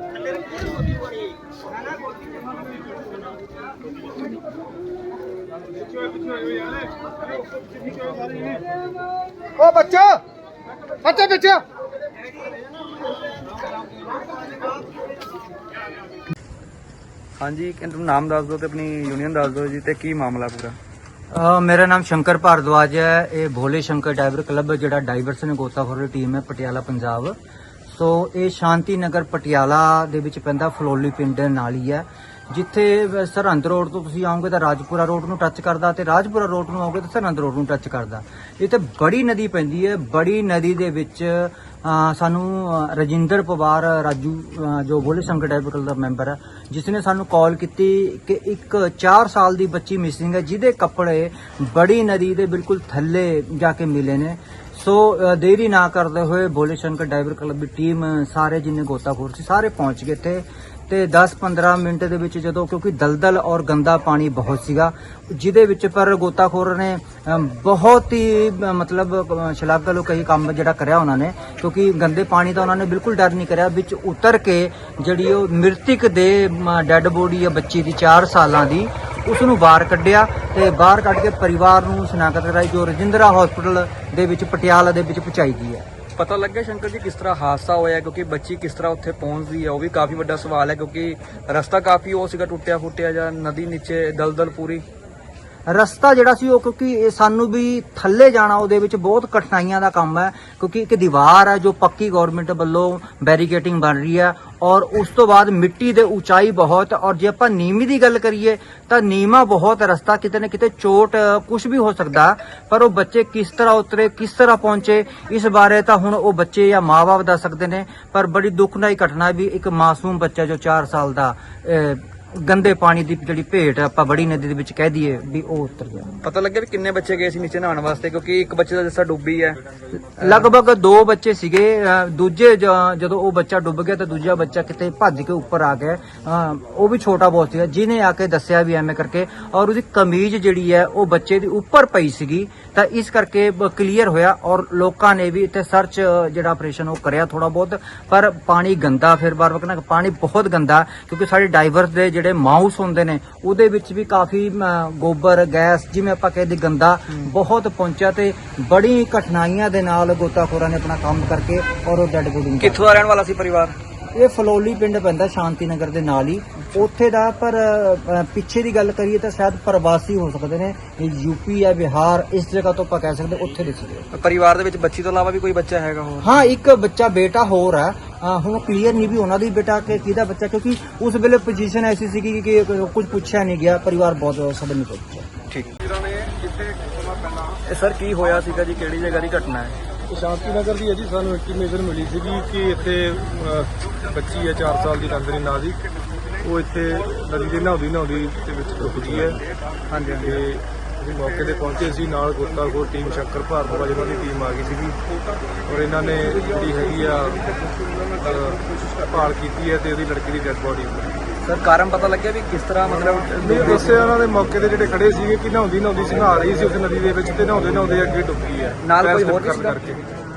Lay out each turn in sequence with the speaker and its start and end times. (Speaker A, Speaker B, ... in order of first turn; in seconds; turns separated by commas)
Speaker A: 9.6-10.0, Speaker B: 17.4-20.8, Speaker A: 21.3-27.4, Speaker A: 27.9-85.8, Speaker B: 86.2-94.8, Speaker A: 95.7-126.1, Speaker B: 126.2-130.5, Speaker A: 130.2-163.0, Speaker B: 162.6-163.8, Speaker A: 164.1-174.1, Speaker B: 174.1-176.3, Speaker A: 176.2-185.3, Speaker B: 187.7-189.8, Speaker C: 190.1-195.8, Speaker C: 196.4-199.4, Speaker B: 198.8-199.4, Speaker B: 199.9-200.4, Speaker C: 200.2-205.0, Speaker C: 205.7-207.5, Speaker C: 208.2-211.2, Speaker B: 211.4-214.1, Speaker C: 213.4-220.0, Speaker B: 218.8-219.8